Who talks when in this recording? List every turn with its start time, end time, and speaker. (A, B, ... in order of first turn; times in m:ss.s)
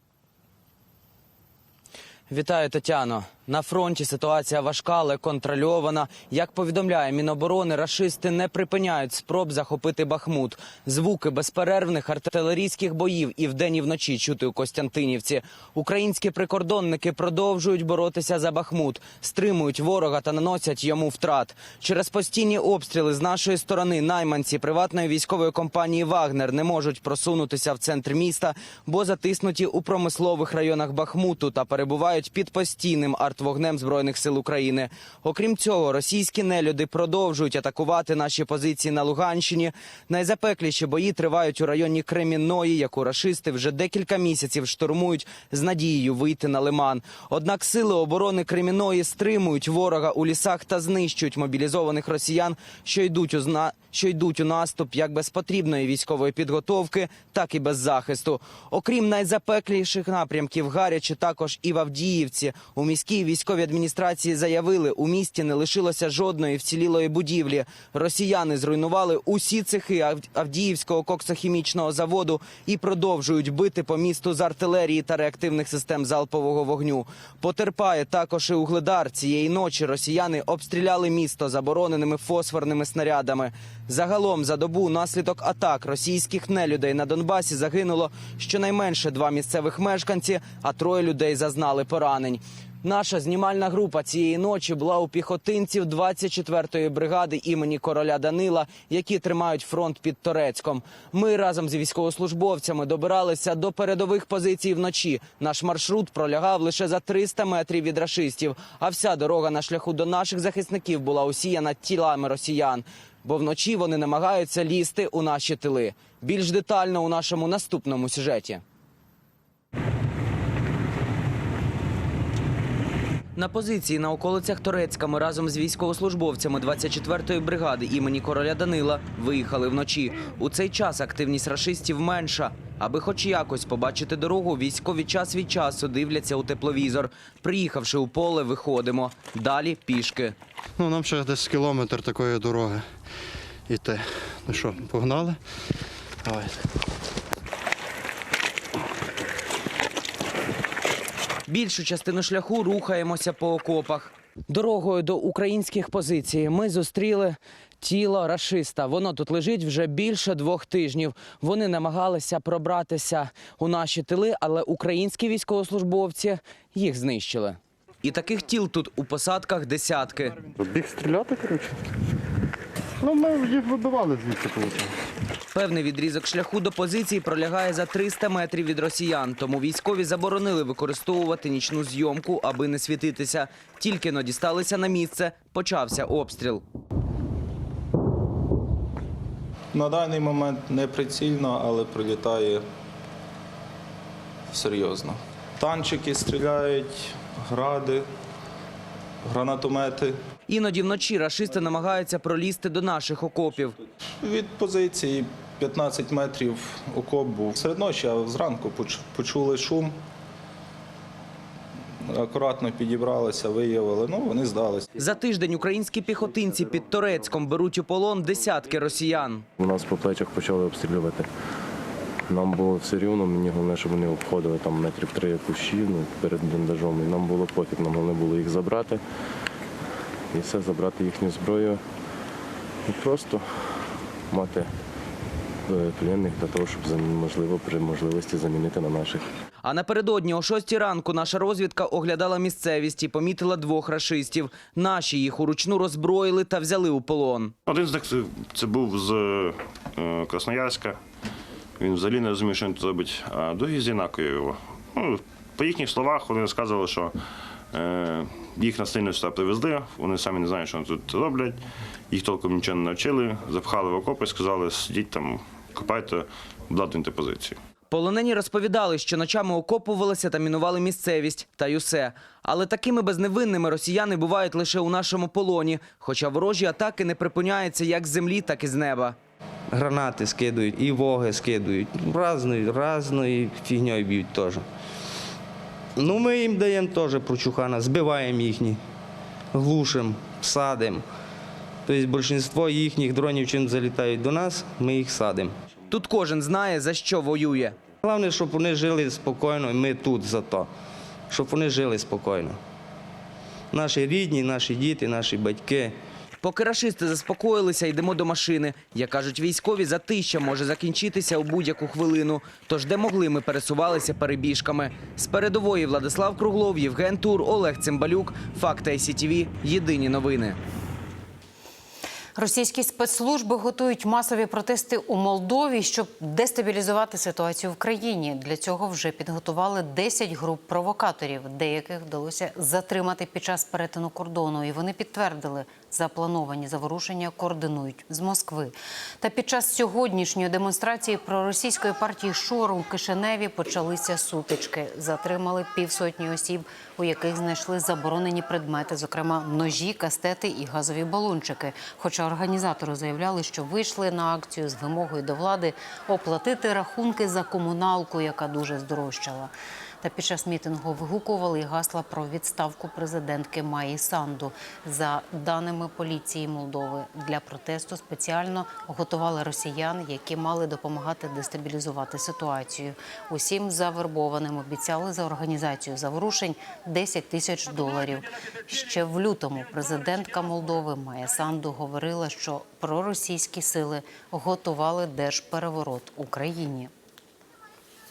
0:02.3-1:58.6 A
2:03.4-2:20.3 A
2:20.8-2:22.8 B
2:23.7-2:25.4 B
2:26.2-2:26.6 B
2:31.5-2:50.4 A
2:50.6-2:51.7 B
2:53.0-2:54.9 B
2:55.5-3:06.6 A
3:09.7-3:12.6 C
3:14.5-3:18.0 C
3:19.2-3:20.2 C
3:20.5-3:23.8 A
3:24.2-3:29.9 C
3:32.0-3:34.8 C
3:35.0-3:39.4 A
3:39.6-3:41.3 D
3:42.3-3:49.0 D
3:50.3-3:51.8 D
3:52.9-3:53.8 D
3:54.3-3:54.7 D
3:55.7-3:59.2 D
3:59.6-4:07.5 A
4:07.7-4:11.0 E
4:11.8-4:17.2 E
4:17.7-4:27.6 E
4:27.9-4:39.2 A
4:39.7-4:44.6 F
4:46.0-4:48.7 F
4:49.5-4:51.0 F
4:51.9-4:55.5 F
4:55.9-4:57.8 A
4:58.0-5:00.6 F
5:01.3-5:02.5 F
5:03.7-5:05.9 F
5:06.4-5:20.6 A
5:22.4-5:59.5 G
6:00.0-6:26.9 G